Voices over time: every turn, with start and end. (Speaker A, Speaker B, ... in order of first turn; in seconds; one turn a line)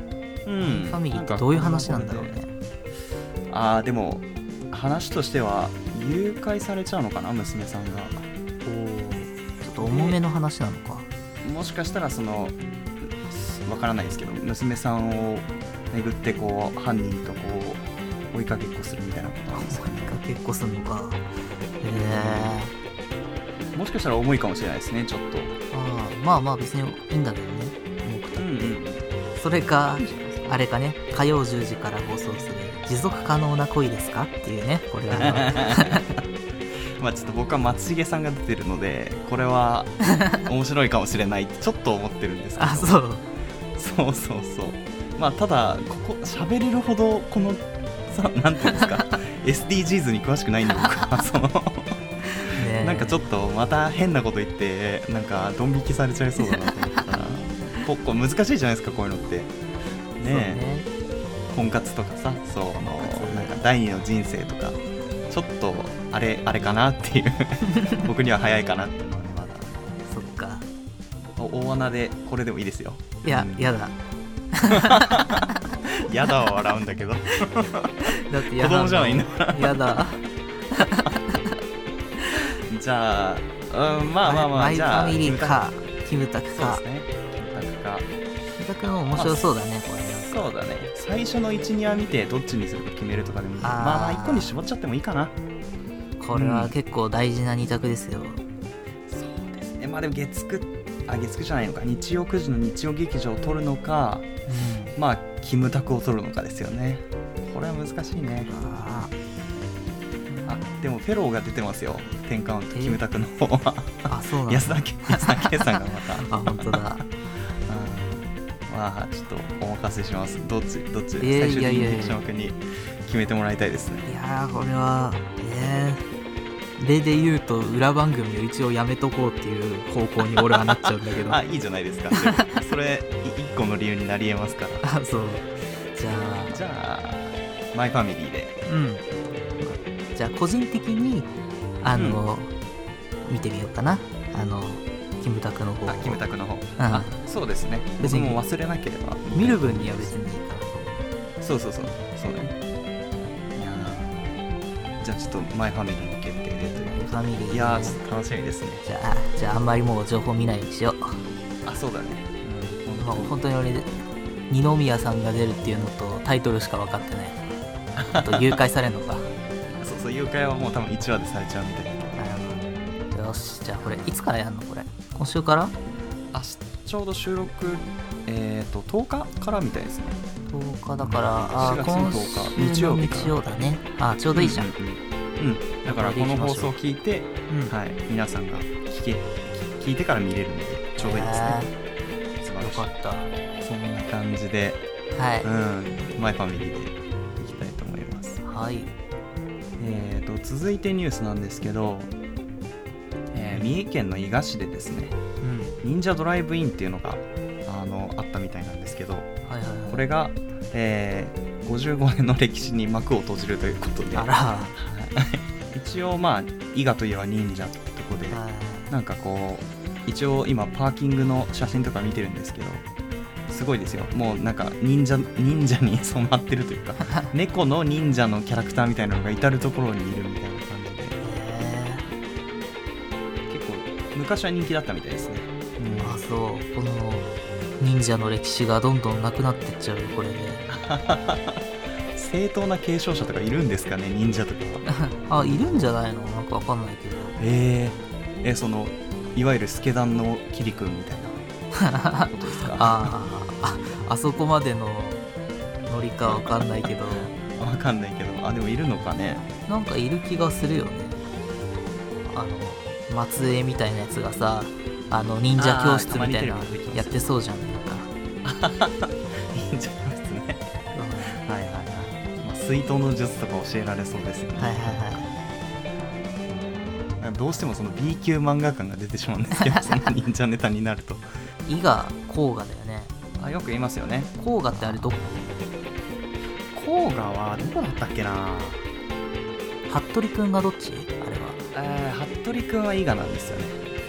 Speaker A: 0.5-2.4
Speaker B: 0.6-2.5
Speaker A: 3.5-8.2
Speaker B: 8.6-11.1
Speaker A: 9.8-10.2
Speaker A: 11.4-20.2
Speaker B: 19.5-21.2
Speaker B: 21.8-22.7
Speaker A: 21.9-22.6
Speaker A: 23.7-25.6
Speaker B: 25.7-28.8
Speaker A: 28.4-29.0
Speaker B: 29.3-36.0
Speaker A: 30.0-30.6
Speaker A: 35.1-36.0
Speaker A: 37.0-43.0
Speaker B: 42.6-43.3
Speaker A: 43.8-51.9
Speaker B: 52.3-53.3
Speaker A: 52.5-59.6
Speaker A: 60.2-60.6
Speaker B: 60.2-60.9
Speaker A: 61.5-69.7
Speaker B: 63.0-63.6
Speaker B: 70.0-70.7
Speaker A: 71.4-73.7
Speaker B: 73.2-74.0
Speaker B: 74.5-75.6
Speaker A: 74.9-75.4
Speaker A: 76.0-77.9
Speaker B: 78.2-80.2
Speaker A: 78.5-80.0
Speaker B: 80.7-81.4
Speaker A: 82.7-85.6
Speaker B: 84.2-86.8
Speaker A: 86.5-88.1
Speaker B: 88.6-90.5
Speaker A: 89.1-95.3
Speaker B: 93.6-94.5
Speaker B: 96.2-98.4
Speaker A: 96.3-96.8
Speaker A: 99.1-104.3
Speaker B: 104.5-104.9
Speaker A: 105.0-108.5
Speaker B: 108.2-109.1
Speaker B: 110.3-110.9
Speaker A: 110.5-117.0
Speaker B: 112.7-113.0
Speaker B: 114.1-117.0
Speaker A: 117.7-124.1
Speaker B: 121.2-122.2
Speaker B: 124.0-126.0
Speaker B: 126.8-131.4
Speaker A: 130.2-134.9
Speaker B: 132.1-132.4
Speaker B: 134.8-136.6
Speaker A: 136.5-138.6
Speaker B: 138.7-139.0
Speaker B: 139.6-142.5
Speaker A: 141.9-142.2
Speaker B: 143.2-146.2
Speaker A: 145.9-150.1
Speaker B: 146.8-147.1
Speaker B: 148.0-148.4
Speaker B: 149.3-151.1
Speaker A: 151.4-152.5
Speaker A: 153.6-154.3
Speaker A: 155.0-158.8
Speaker B: 156.8-158.0
Speaker B: 158.8-161.2
Speaker A: 161.6-163.4
Speaker B: 163.0-163.9
Speaker B: 164.5-167.4
Speaker A: 167.9-168.6
Speaker B: 168.2-169.3
Speaker A: 169.7-172.2
Speaker B: 172.2-175.7
Speaker A: 173.8-174.1
Speaker A: 176.3-180.2
Speaker B: 180.5-184.7
Speaker A: 181.0-183.4
Speaker A: 184.3-191.6
Speaker B: 185.8-186.7
Speaker B: 187.5-187.7
Speaker B: 191.0-191.7
Speaker A: 192.4-192.9
Speaker B: 192.6-193.3
Speaker A: 193.6-194.8
Speaker B: 195.1-195.5
Speaker A: 195.4-198.4
Speaker B: 198.4-198.9
Speaker A: 199.8-202.1
Speaker A: 203.3-205.2
Speaker B: 203.5-203.8
Speaker B: 205.4-205.7
Speaker A: 205.8-209.3
Speaker B: 209.4-210.1
Speaker A: 209.9-222.8
Speaker B: 214.1-214.7
Speaker B: 218.3-218.9
Speaker A: 223.5-231.2
Speaker B: 231.2-232.0
Speaker A: 233.5-236.2
Speaker B: 236.0-240.6
Speaker A: 240.7-241.6
Speaker A: 242.1-244.8
Speaker B: 244.8-247.3
Speaker A: 245.3-245.9
Speaker A: 247.4-251.4
Speaker B: 251.8-255.2
Speaker A: 252.3-253.2
Speaker B: 255.9-257.3
Speaker A: 256.2-259.4
Speaker B: 259.7-261.2
Speaker B: 262.2-268.1
Speaker A: 265.6-267.2
Speaker A: 268.4-270.7
Speaker B: 270.9-271.4
Speaker A: 271.3-275.2
Speaker B: 274.6-275.3
Speaker A: 277.2-281.3
Speaker B: 281.6-283.1
Speaker A: 283.4-285.5
Speaker B: 284.4-285.5
Speaker A: 286.7-288.8
Speaker B: 289.9-291.6
Speaker A: 291.7-293.8